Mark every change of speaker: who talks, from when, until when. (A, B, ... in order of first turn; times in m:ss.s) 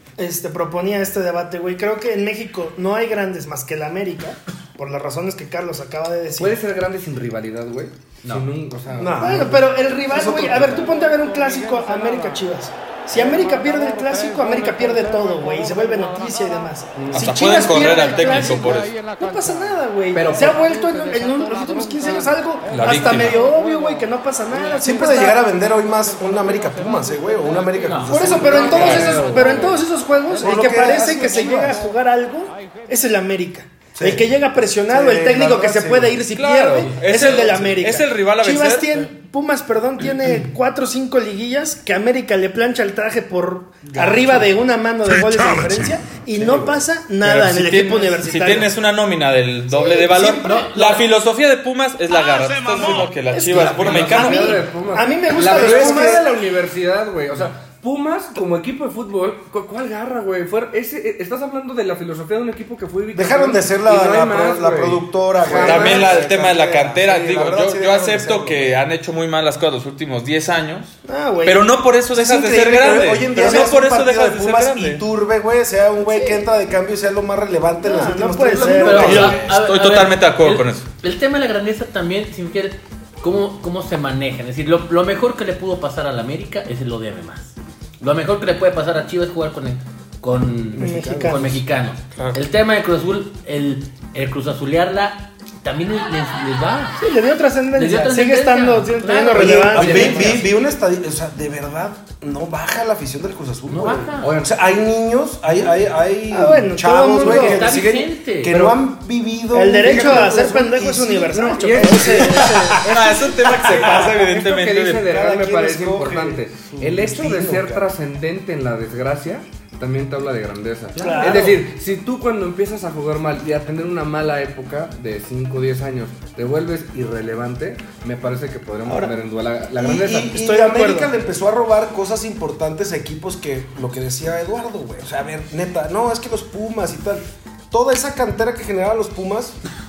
0:00.2-0:06.6 A
0:06.4-0:09.6 B
0:08.2-0:08.5 C
0:08.9-0:10.9 D
0:09.2-0:25.4 A
0:17.0-0:17.4 B
0:17.1-0:19.0 E
0:20.1-0:20.6 B
0:22.7-0:23.4 B
0:22.8-0:23.4 E
0:24.8-0:29.6 D
0:27.8-0:29.2 C
0:28.1-0:48.7 A
0:28.2-0:29.8 B
0:30.4-0:31.8 D
0:34.0-0:34.3 D
0:34.9-0:36.2 D
0:36.4-0:39.1 E
0:43.9-0:44.5 E
0:46.4-0:46.8 B
0:47.2-0:54.6 E
0:49.8-0:50.7 A
0:50.2-0:50.7 D
0:50.4-0:51.0 C
0:53.3-0:56.4 A
0:53.6-1:06.3 B
0:55.4-0:56.2 D
1:03.1-1:08.8 D
1:05.5-1:15.0 E
1:05.6-1:06.1 A
1:11.0-1:11.7 A
1:12.1-1:19.6 D
1:16.0-1:16.5 A
1:17.8-1:19.4 A
1:18.6-1:37.0 C
1:18.9-1:20.9 E
1:30.7-1:31.6 D
1:30.8-1:31.6 A
1:37.0-1:40.4 A
1:37.8-1:40.5 C
1:39.3-1:52.8 D
1:39.8-1:40.4 B
1:43.7-1:44.4 C
1:44.2-1:44.6 B
1:46.3-1:47.8 A
1:47.2-1:48.6 C
1:48.5-1:48.8 B
1:49.5-1:52.8 A
1:49.9-1:50.2 B
1:51.3-2:10.4 B
1:52.7-1:55.1 E
1:53.4-1:54.1 D
1:55.0-1:57.9 D
2:01.0-2:01.5 C
2:01.0-2:01.6 A
2:08.9-2:09.1 A
2:09.8-2:19.6 D
2:10.2-2:11.1 A